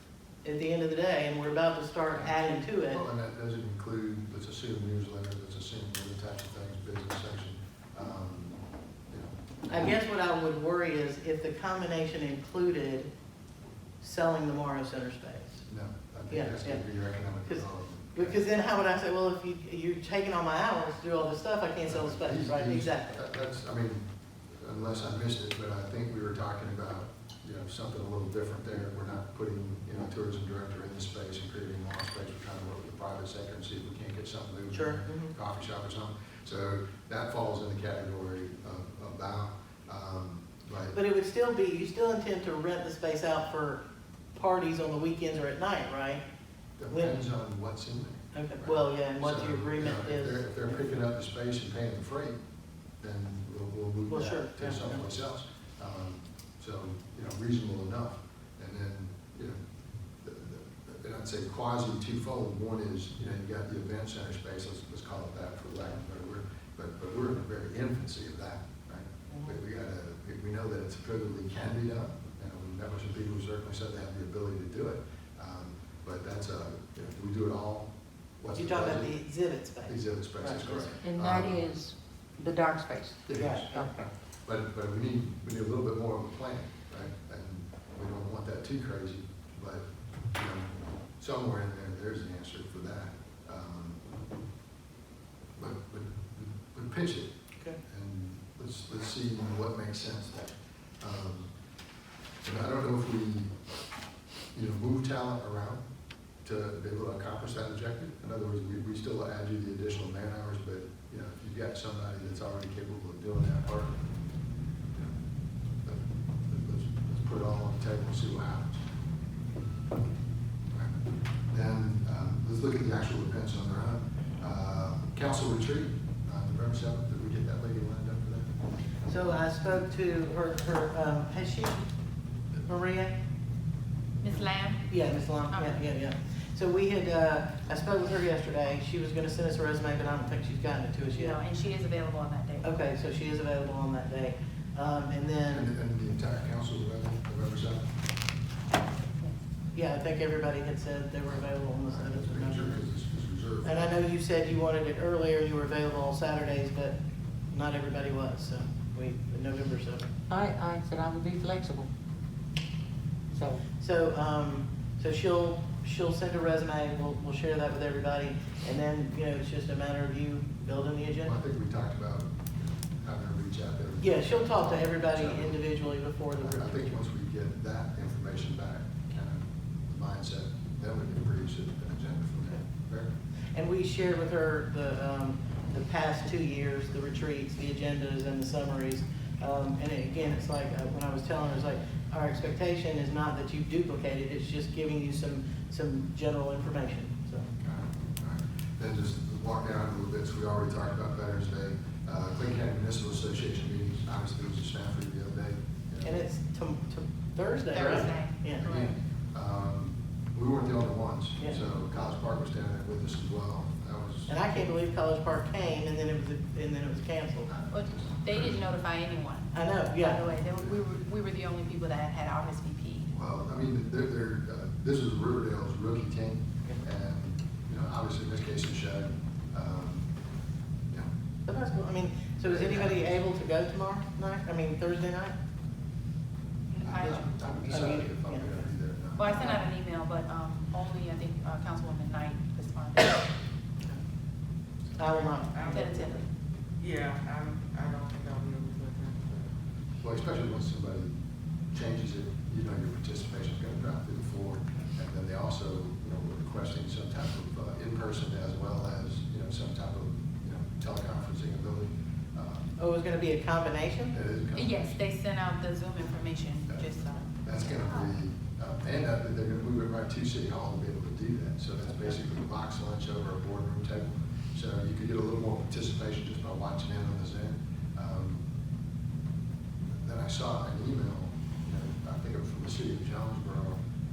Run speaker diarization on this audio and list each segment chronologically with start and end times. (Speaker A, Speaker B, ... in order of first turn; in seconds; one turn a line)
Speaker A: 0.4-3.0
Speaker B: 2.9-9.3
Speaker A: 9.7-13.1
Speaker A: 14.0-15.6
Speaker B: 15.7-18.4
Speaker A: 16.3-16.8
Speaker A: 18.1-23.2
Speaker B: 21.9-41.0
Speaker A: 34.7-35.3
Speaker A: 40.9-43.8
Speaker A: 44.3-46.2
Speaker B: 46.8-52.4
Speaker A: 48.3-50.4
Speaker B: 53.0-59.6
Speaker A: 54.1-55.0
Speaker B: 60.2-79.2
Speaker A: 69.3-69.5
Speaker A: 78.5-81.0
Speaker B: 79.8-81.7
Speaker C: 81.0-83.9
Speaker B: 83.3-89.8
Speaker A: 83.4-83.7
Speaker B: 90.3-94.0
Speaker B: 95.6-97.3
Speaker B: 97.8-101.5
Speaker B: 102.4-103.5
Speaker B: 104.5-105.8
Speaker B: 106.4-114.1
Speaker B: 115.8-118.8
Speaker B: 121.5-128.5
Speaker A: 129.1-131.9
Speaker A: 132.6-133.2
Speaker D: 134.2-134.9
Speaker A: 134.9-141.4
Speaker D: 135.5-135.8
Speaker D: 141.1-142.7
Speaker A: 142.6-145.7
Speaker B: 145.5-147.8
Speaker A: 149.7-152.8
Speaker B: 151.9-153.8
Speaker A: 153.6-157.0
Speaker A: 157.5-160.1
Speaker C: 160.3-161.9
Speaker C: 163.3-163.6
Speaker A: 163.8-171.4
Speaker B: 171.2-175.6
Speaker A: 174.0-176.8
Speaker B: 176.4-183.1
Speaker A: 183.6-197.5
Speaker B: 197.6-206.2
Speaker A: 206.0-208.7
Speaker D: 207.7-209.0
Speaker B: 208.6-214.4
Speaker A: 214.3-217.5
Speaker B: 217.5-218.7
Speaker D: 217.7-223.1
Speaker A: 219.5-220.2
Speaker B: 223.1-230.1
Speaker A: 231.5-235.3
Speaker B: 232.5-233.1
Speaker D: 236.7-238.0
Speaker B: 236.8-239.6
Speaker A: 237.7-238.5
Speaker D: 239.2-243.3
Speaker A: 245.0-246.0
Speaker D: 245.1-246.2
Speaker E: 246.8-249.4
Speaker B: 250.0-251.1
Speaker B: 251.7-262.7
Speaker A: 262.8-264.1
Speaker B: 264.1-265.0
Speaker D: 264.6-268.1
Speaker B: 266.7-278.4
Speaker B: 279.9-283.8